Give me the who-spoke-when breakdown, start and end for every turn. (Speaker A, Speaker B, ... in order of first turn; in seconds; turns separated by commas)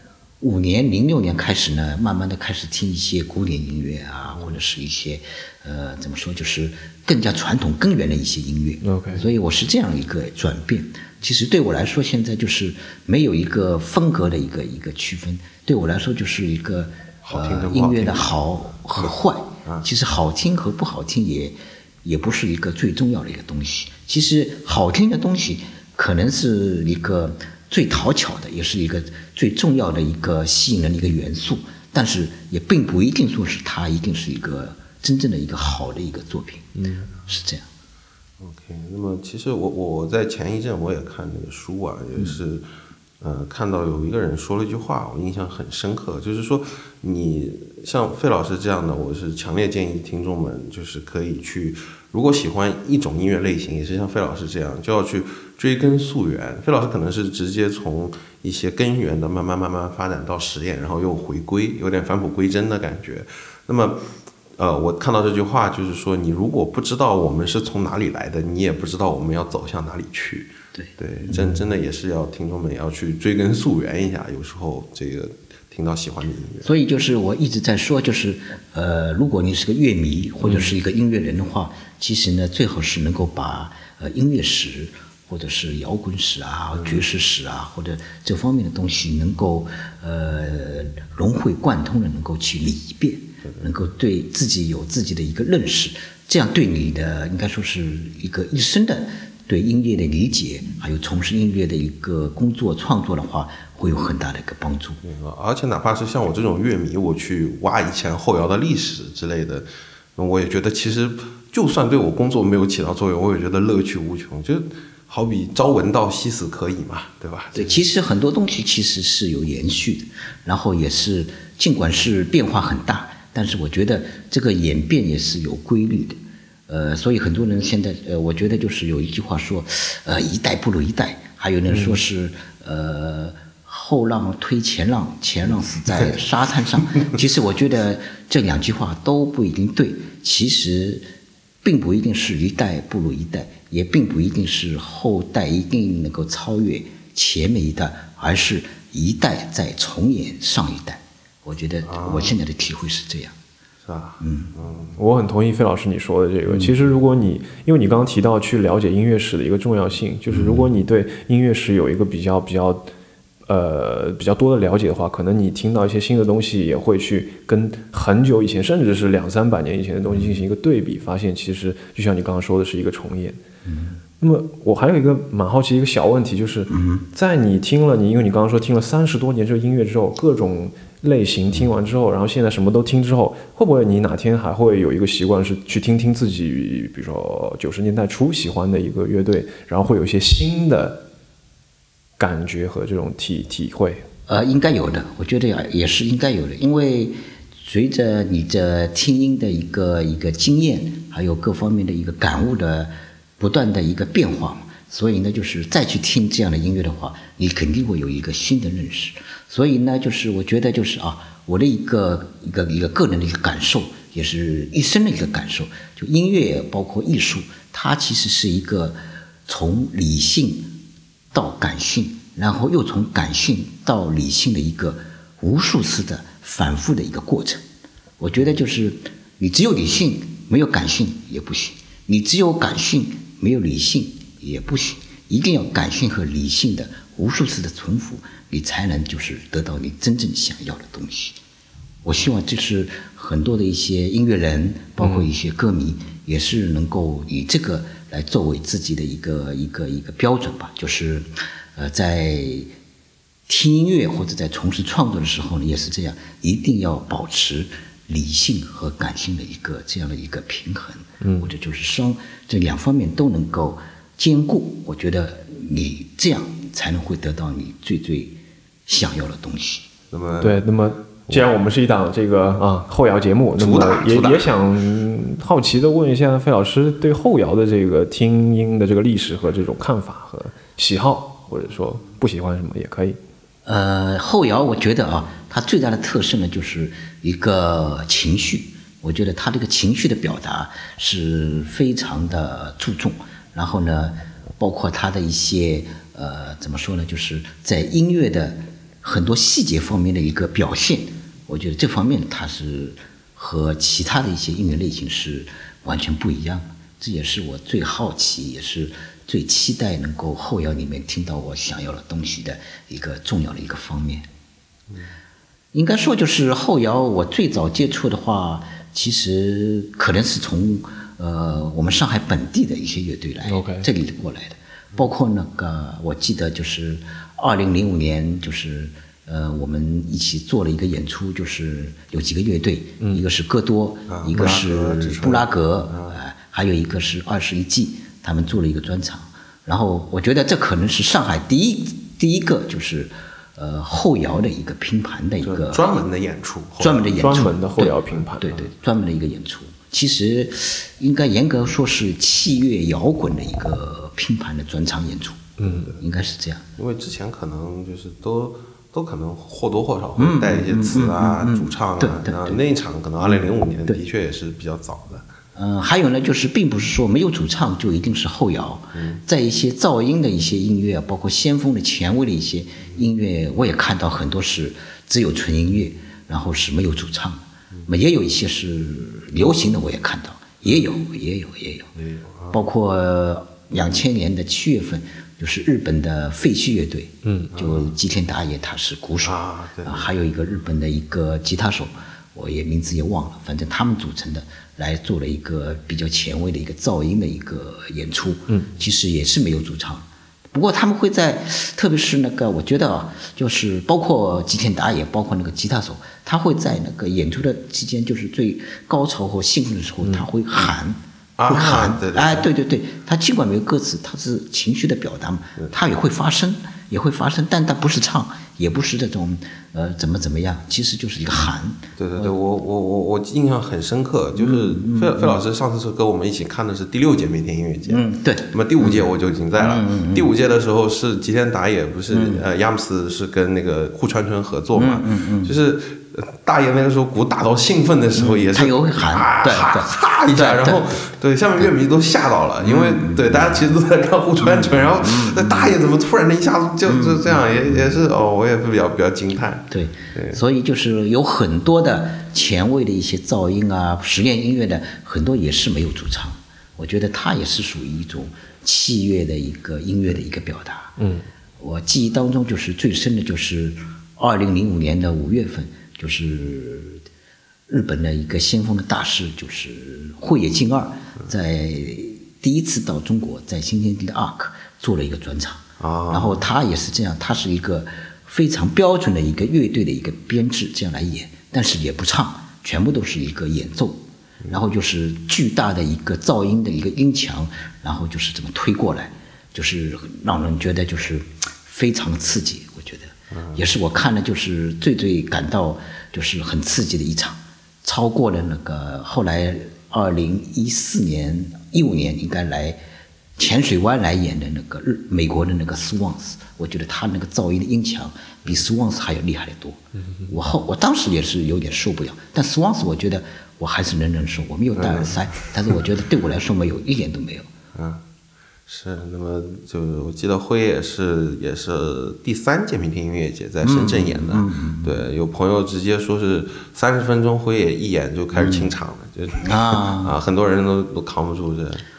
Speaker A: 0.4-37.7, Speaker B: 8.8-9.2, Speaker C: 17.2-18.3, Speaker B: 36.8-37.1, Speaker C: 38.4-42.7, Speaker C: 43.2-64.0, Speaker C: 64.6-76.7, Speaker A: 70.8-71.6, Speaker A: 76.6-105.0, Speaker C: 105.0-117.9, Speaker A: 117.5-126.2, Speaker A: 126.7-141.1, Speaker B: 131.7-132.0, Speaker A: 141.6-153.3, Speaker C: 151.8-152.4, Speaker C: 153.8-155.0, Speaker A: 154.2-154.5, Speaker B: 155.0-162.9, Speaker A: 160.3-160.7, Speaker B: 163.5-173.4, Speaker A: 173.7-174.0, Speaker B: 174.2-191.0, Speaker A: 176.7-177.0, Speaker B: 192.2-194.1, Speaker A: 194.3-220.8, Speaker A: 221.3-227.6, Speaker A: 228.2-241.4, Speaker A: 242.0-252.7, Speaker B: 245.0-245.3, Speaker A: 253.5-269.9, Speaker B: 261.2-261.5, Speaker C: 270.1-270.6, Speaker B: 270.4-283.2, Speaker C: 273.6-274.6, Speaker A: 283.6-314.3, Speaker A: 315.7-345.9, Speaker B: 323.5-323.9, Speaker C: 334.1-336.2, Speaker C: 345.4-347.1, Speaker A: 346.8-356.7, Speaker B: 347.1-348.6, Speaker B: 355.6-355.9, Speaker C: 355.6-356.0, Speaker C: 356.8-365.3, Speaker A: 360.2-362.6, Speaker A: 363.2-364.0, Speaker A: 365.6-381.9, Speaker C: 369.0-369.2, Speaker C: 382.0-382.6, Speaker A: 382.5-422.3, Speaker B: 387.2-387.5, Speaker C: 387.5-387.9, Speaker C: 389.2-390.1, Speaker C: 411.4-412.5, Speaker C: 422.0-450.4, Speaker A: 424.4-425.4, Speaker A: 427.9-430.3, Speaker A: 432.1-432.4, Speaker A: 434.7-435.6, Speaker A: 438.2-440.9, Speaker A: 442.6-443.7, Speaker A: 444.4-445.8, Speaker A: 446.8-448.0, Speaker A: 449.7-461.0, Speaker B: 461.0-461.3, Speaker A: 461.6-467.0, Speaker A: 467.7-502.8, Speaker C: 475.8-476.4, Speaker C: 493.3-493.6, Speaker A: 503.4-517.5, Speaker C: 514.8-515.5, Speaker C: 517.8-518.0, Speaker C: 518.7-531.8, Speaker A: 523.6-525.0, Speaker A: 528.3-528.7, Speaker A: 529.4-530.1